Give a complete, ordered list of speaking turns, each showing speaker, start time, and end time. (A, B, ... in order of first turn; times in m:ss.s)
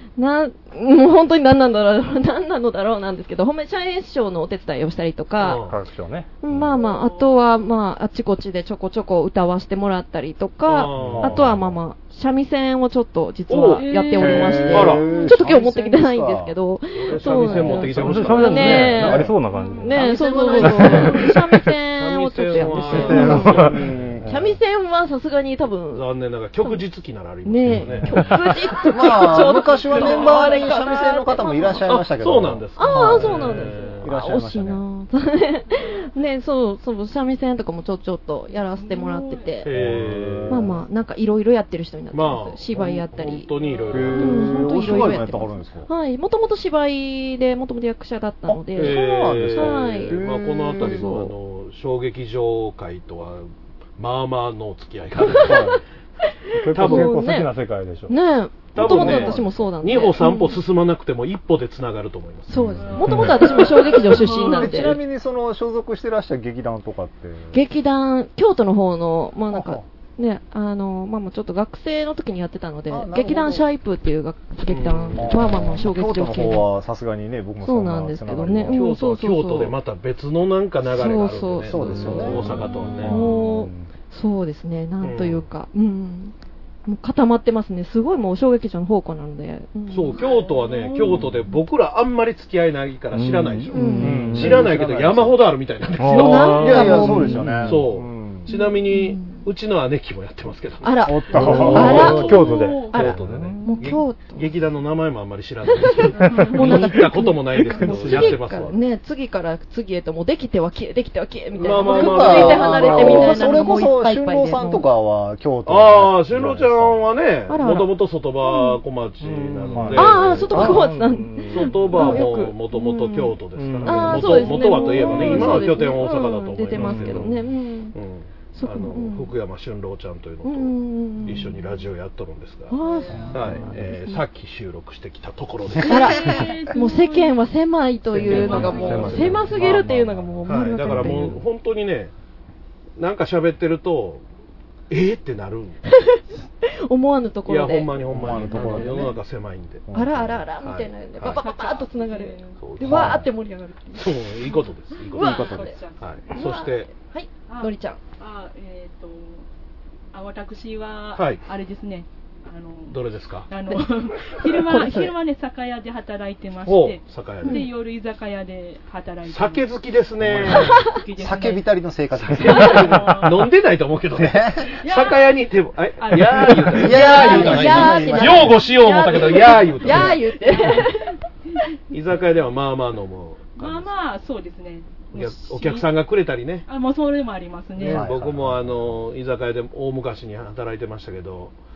0:00.2-0:05.6 A
0:05.4-0:05.7 B
0:05.6-0:06.7 C
0:06.4-0:26.1 A
0:06.7-0:07.5 D
0:10.6-0:11.4 B
0:11.0-0:11.6 E
0:11.0-0:11.7 C
0:13.5-0:13.9 B
0:13.7-0:15.6 D
0:14.1-0:16.5 E
0:14.7-0:15.1 B
0:16.9-0:19.2 B
0:17.4-0:17.8 E
0:17.8-0:21.8 C
0:18.7-0:19.3 E
0:19.5-0:21.1 D
0:21.9-0:24.1 B
0:22.9-0:24.5 C
0:22.9-0:24.2 E
0:25.9-0:29.3 B
0:27.4-0:31.9 A
0:27.6-0:28.3 C
0:28.8-0:34.8 E
0:30.1-0:30.8 D
0:31.9-0:34.1 B
0:32.8-0:39.7 A
0:35.7-0:36.0 D
0:38.5-0:39.5 D
0:39.6-0:40.6 B
0:39.7-0:40.8 E
0:40.5-0:43.6 A
0:42.1-0:45.1 B
0:43.6-0:44.1 D
0:43.9-0:45.9 E
0:44.1-0:51.3 A
0:48.5-0:51.1 E
0:48.7-0:55.7 B
0:55.4-0:55.8 E
0:56.5-0:58.2 C
0:56.7-0:57.2 B
0:56.7-0:57.5 A
0:58.1-1:00.6 A
0:58.7-1:03.9 B
0:58.9-0:59.3 C
1:02.5-1:05.0 A
1:02.5-1:03.2 E
1:02.8-1:04.9 D
1:03.1-1:03.4 C
1:04.3-1:07.6 E
1:07.5-1:16.7 A
1:09.5-1:09.8 E
1:12.9-1:13.7 E
1:14.7-1:15.3 B
1:15.1-1:18.8 E
1:17.6-1:19.7 A
1:18.7-1:23.2 B
1:20.8-1:26.3 A
1:21.7-1:22.6 E
1:22.1-1:23.9 C
1:25.0-1:25.4 B
1:26.8-1:30.2 A
1:29.9-1:37.0 B
1:30.2-1:31.2 D
1:33.1-1:34.7 C
1:33.7-1:34.2 A
1:34.0-1:35.4 E
1:36.0-1:37.9 C
1:36.0-1:37.4 A
1:36.5-1:38.4 E
1:37.6-1:48.8 B
1:38.5-1:39.4 A
1:40.8-1:44.5 A
1:41.1-1:42.1 E
1:41.3-1:43.8 C
1:41.4-1:43.1 D
1:46.2-1:46.7 D
1:46.3-1:48.4 C
1:46.4-1:54.8 A
1:51.6-1:53.5 B
1:51.8-1:57.1 E
1:55.6-2:00.7 B
1:57.5-1:57.9 A
1:58.5-1:58.8 A
1:59.2-2:02.3 C
1:59.7-2:00.8 E
1:59.9-2:08.0 A
2:01.5-2:07.3 B
2:03.5-2:05.6 C
2:06.7-2:07.5 C
2:07.9-2:12.8 B
2:08.5-2:09.3 A
2:10.4-2:11.6 A
2:12.7-2:14.1 A
2:12.8-2:13.4 D
2:13.1-2:13.4 E
2:13.3-2:16.3 B
2:13.5-2:13.9 C
2:15.8-2:16.1 E
2:15.8-2:17.4 D
2:15.8-2:21.4 A
2:18.2-2:19.5 D
2:18.2-2:19.6 B
2:18.4-2:20.0 C
2:19.0-2:20.4 E
2:20.4-2:22.1 B
2:20.9-2:21.2 C
2:23.0-2:24.2 B
2:24.9-2:25.9 B
2:26.0-2:29.0 A
2:27.5-2:29.8 B
2:28.1-2:29.2 E
2:29.9-2:30.5 E
2:29.9-2:34.3 A
2:30.6-2:31.4 B
2:31.2-2:32.6 D
2:32.6-2:33.2 B
2:32.8-2:33.3 E
2:34.0-2:35.4 B
2:34.4-2:36.2 D
2:35.1-2:35.8 A
2:35.1-2:35.8 E
2:36.0-2:36.9 B
2:36.3-2:38.0 A
2:37.5-2:39.5 D
2:40.1-2:49.7 D
2:41.2-2:41.4 B
2:42.9-2:43.5 B
2:44.4-2:45.1 A
2:46.6-2:47.7 B
2:47.4-2:47.7 A
2:49.2-2:50.8 B
2:50.3-2:50.6 E
2:50.4-2:51.7 D
2:51.2-2:53.1 E
2:52.2-3:00.2 B
2:52.3-2:53.5 D
2:54.1-2:54.7 E
2:54.8-2:55.4 D
2:56.0-2:58.4 D
2:56.7-2:58.6 E
2:56.9-3:01.1 A
2:59.4-3:01.2 D
3:01.9-3:03.9 B
3:03.6-3:05.9 D
3:05.1-3:06.7 B
3:06.7-3:08.2 D
3:07.8-3:09.0 E
3:07.8-3:11.5 B